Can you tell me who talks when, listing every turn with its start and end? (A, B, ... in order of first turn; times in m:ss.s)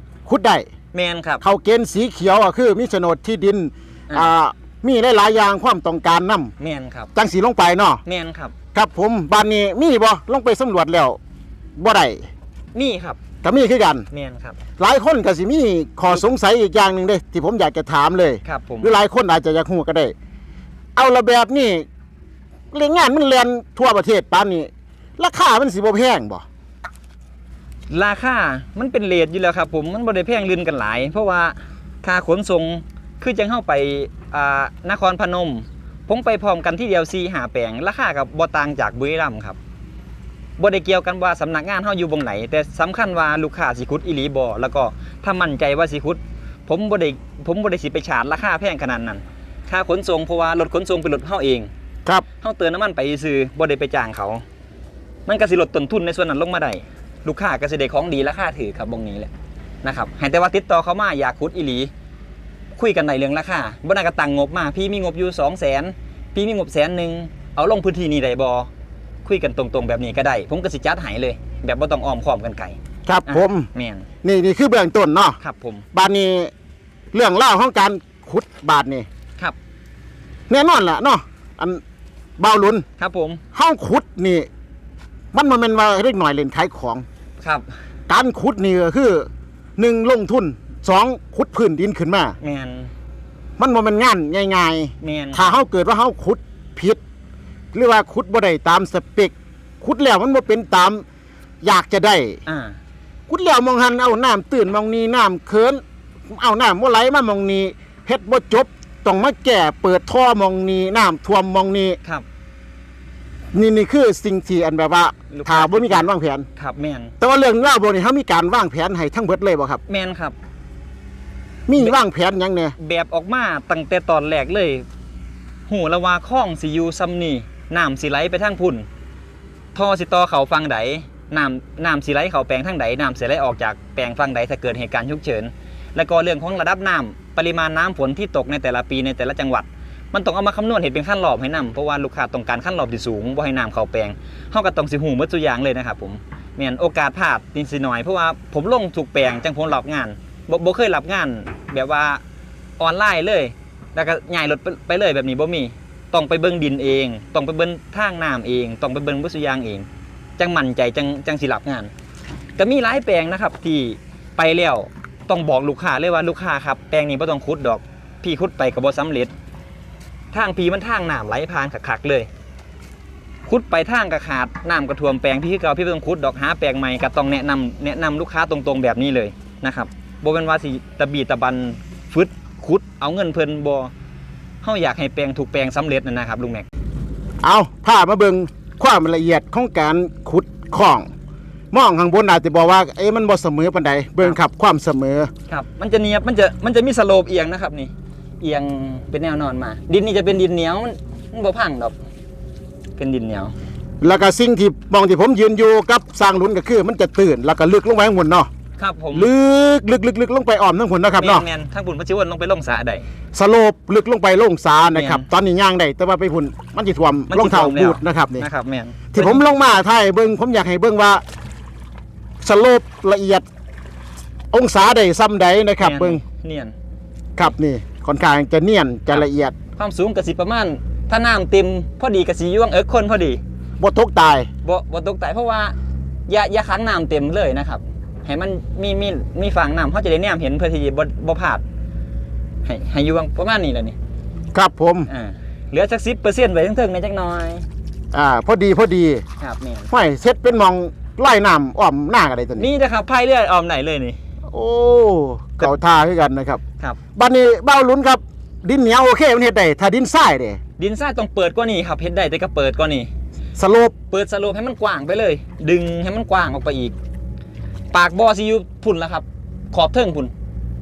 0:00.2-0:00.7 A
0:00.9-0:01.4 B
0:01.4-0:06.5 A
0:06.6-0:07.1 B
0:07.1-0:08.0 A
0:08.0-0:08.5 B
0:08.7-0:11.2 A
0:11.8-0:12.3 A
0:12.7-0:13.2 B
0:13.4-0:14.1 A
0:14.1-0:14.6 B
0:14.8-0:20.1 A
0:18.4-0:18.9 B
0:21.0-0:21.8 A
0:22.7-0:26.4 A
0:27.9-0:39.6 B
0:40.6-0:51.7 B
0:52.4-0:54.4 B
0:55.2-0:59.3 B
0:59.8-1:01.9 B
1:02.8-1:08.7 B
1:09.2-1:14.0 B
1:13.1-1:13.7 A
1:14.2-1:15.4 A
1:15.4-1:15.8 B
1:15.9-1:16.5 A
1:17.1-1:19.1 A
1:20.5-1:21.8 A
1:22.4-1:22.8 A
1:23.0-1:23.4 B
1:23.5-1:24.5 A
1:25.3-1:27.0 A
1:27.4-1:27.7 B
1:28.1-1:32.3 A
1:32.4-1:32.9 B
1:33.6-1:37.0 A
1:35.0-1:35.5 B
1:37.7-1:41.0 A
1:41.6-1:42.4 A
1:42.4-1:42.8 B
1:43.3-1:52.0 A
1:53.5-1:56.4 A
1:55.3-1:57.1 B
1:57.2-1:59.8 A
1:59.9-2:00.3 B
2:01.7-2:02.7 A
2:02.8-2:04.8 B
2:05.7-2:08.8 B
2:09.7-2:32.2 B
2:32.8-2:39.8 B
2:40.4-2:41.9 B
2:42.6-2:49.3 B
2:50.3-2:52.3 B
2:53.5-3:03.9 B
3:04.6-3:06.6 B
3:07.4-3:11.1 A
3:11.7-3:15.3 A
3:15.5-3:22.0 B
3:23.0-3:23.5 B
3:24.0-3:28.5 A
3:28.8-3:29.3 B
3:29.1-3:31.4 A
3:31.2-3:33.0 B
3:33.3-3:38.5 A
3:34.9-3:35.2 B
3:37.3-3:39.4 B
3:39.1-3:41.2 A
3:42.4-3:43.4 A
3:44.5-3:46.2 A
3:45.8-3:46.7 B
3:47.4-3:49.5 A
3:49.8-3:53.4 B
3:53.8-3:54.5 A
3:54.6-3:55.7 B
3:56.3-4:01.6 B
4:02.6-4:04.0 B
4:04.5-4:05.1 A
4:05.1-4:07.6 B
4:08.1-4:09.2 A
4:09.4-4:09.9 B
4:09.9-4:12.7 A
4:12.6-4:14.2 B
4:14.5-4:16.6 A
4:17.2-4:20.6 A
4:20.8-4:23.1 B
4:23.6-4:23.9 A
4:24.1-4:26.9 B
4:27.9-4:30.3 B